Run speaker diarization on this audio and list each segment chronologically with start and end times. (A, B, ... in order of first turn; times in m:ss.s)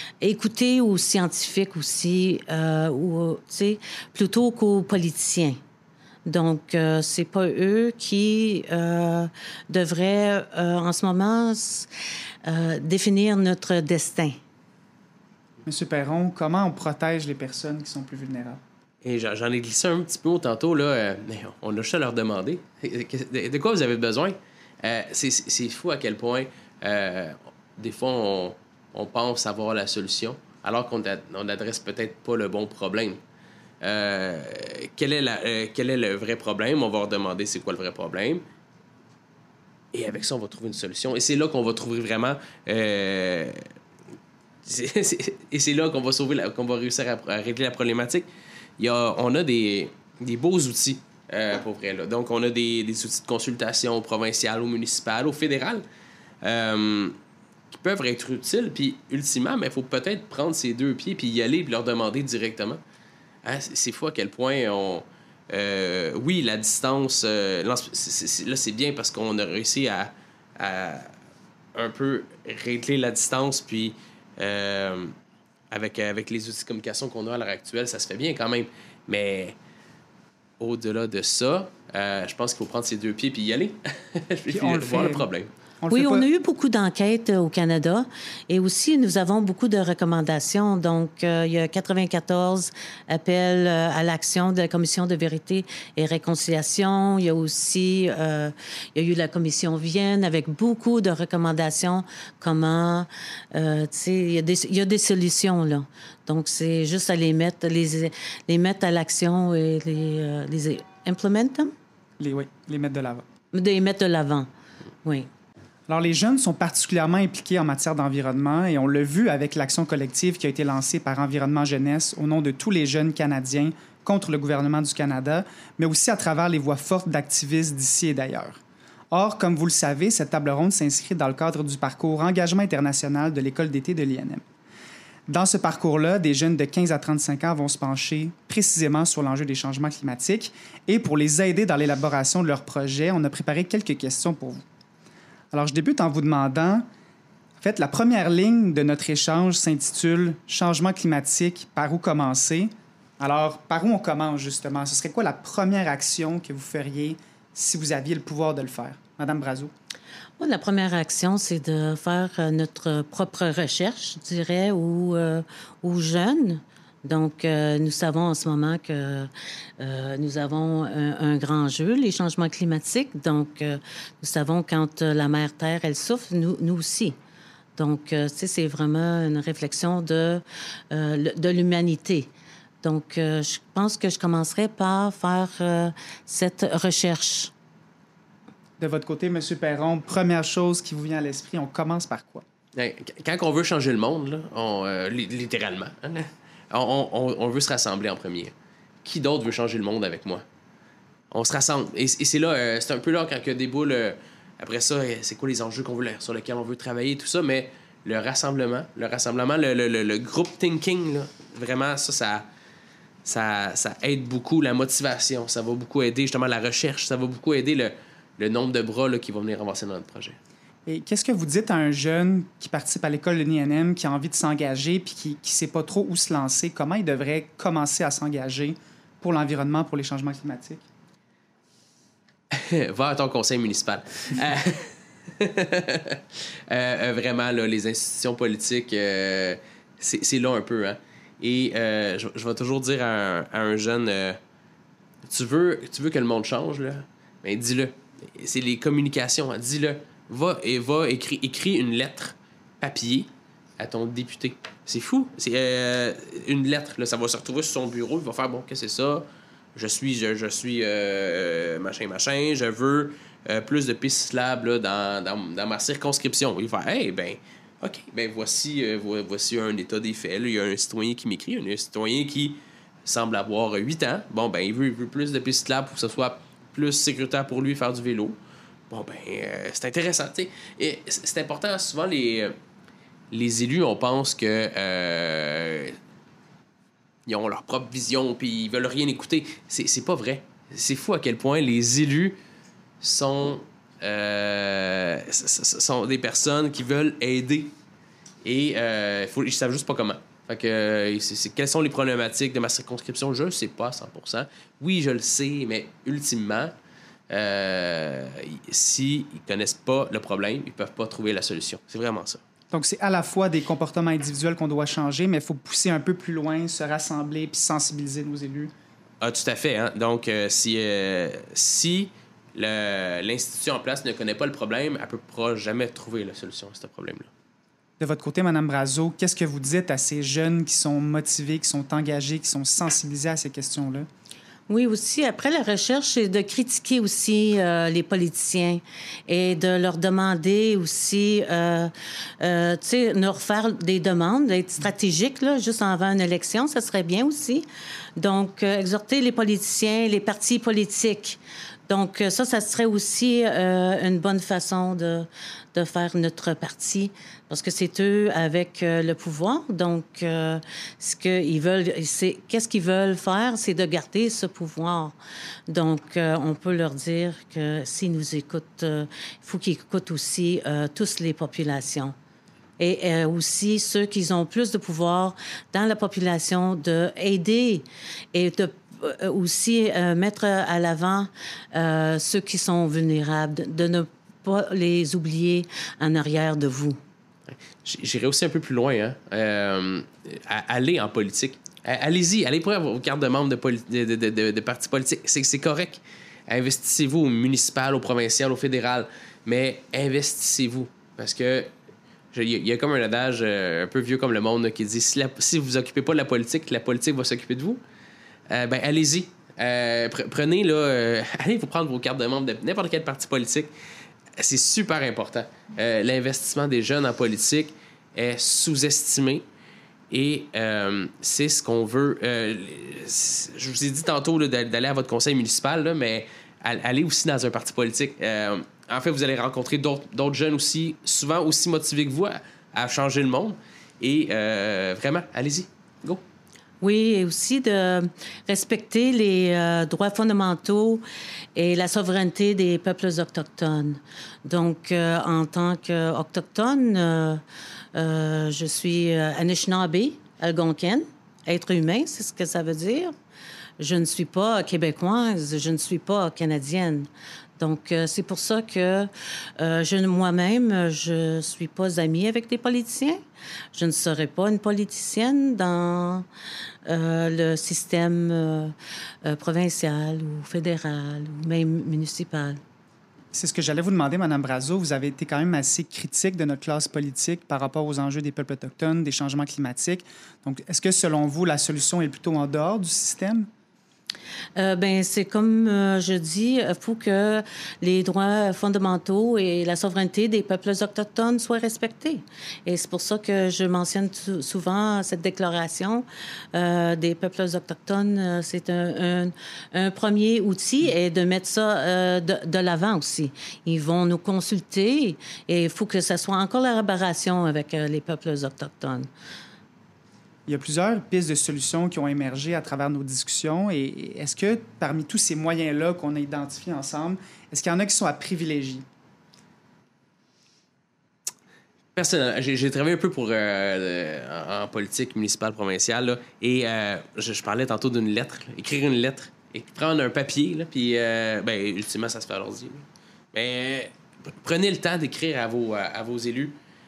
0:00.2-0:05.6 A
0:06.2-0:11.9 A
0:12.4-0:14.4 A
0:15.6-0:18.6 B
0:19.0-0:33.2 C
0:33.8-0:38.4 C
0:39.9-0:43.7 C
0:44.6-0:48.2 C
0:48.8-0:55.8 C
0:56.4-0:57.2 C
0:57.7-1:02.8 C
1:03.4-1:11.1 C
1:11.7-1:15.1 C
1:15.7-1:19.5 C
1:20.6-1:25.5 C
1:24.5-1:25.3 B
1:25.8-1:26.2 B
1:25.9-1:51.7 A
1:52.2-1:53.2 B
1:53.5-1:54.5 A
1:55.0-1:55.3 A
1:55.9-2:08.6 B
2:09.1-2:14.4 B
2:15.3-2:24.6 B
2:25.5-2:26.8 B
2:27.6-2:39.7 B
2:40.4-2:57.1 A
2:57.8-3:02.3 A
3:02.8-3:07.5 A
3:08.8-3:12.4 B
3:12.7-3:18.5 C
3:19.0-3:20.4 C
3:21.3-3:32.4 C
3:33.2-3:40.4 C
3:40.8-3:50.8 B
3:52.5-4:04.4 C
4:05.2-4:38.4 C
4:38.9-4:42.5 C
4:43.3-4:46.0 C
4:47.2-4:52.4 C
4:53.0-4:57.7 C
4:58.4-5:06.7 C
5:07.3-5:12.4 C
5:12.7-5:18.7 B
5:19.2-5:27.3 C
5:28.0-5:34.1 B
5:34.7-5:47.6 A
5:48.2-6:05.2 A
6:05.7-6:12.1 A
6:12.8-6:27.0 A
6:27.5-6:41.7 C
6:42.3-6:47.8 C
6:48.5-6:53.7 C
6:54.4-6:59.4 C
7:00.1-7:16.2 C
7:16.8-7:21.0 A
7:21.6-7:27.4 A
7:27.9-7:33.1 A
7:33.8-7:43.2 A
7:43.7-7:46.2 A
7:46.8-7:52.6 A
7:53.3-8:03.5 B
8:04.6-8:29.1 A
8:30.5-8:38.8 B
8:42.0-8:56.6 C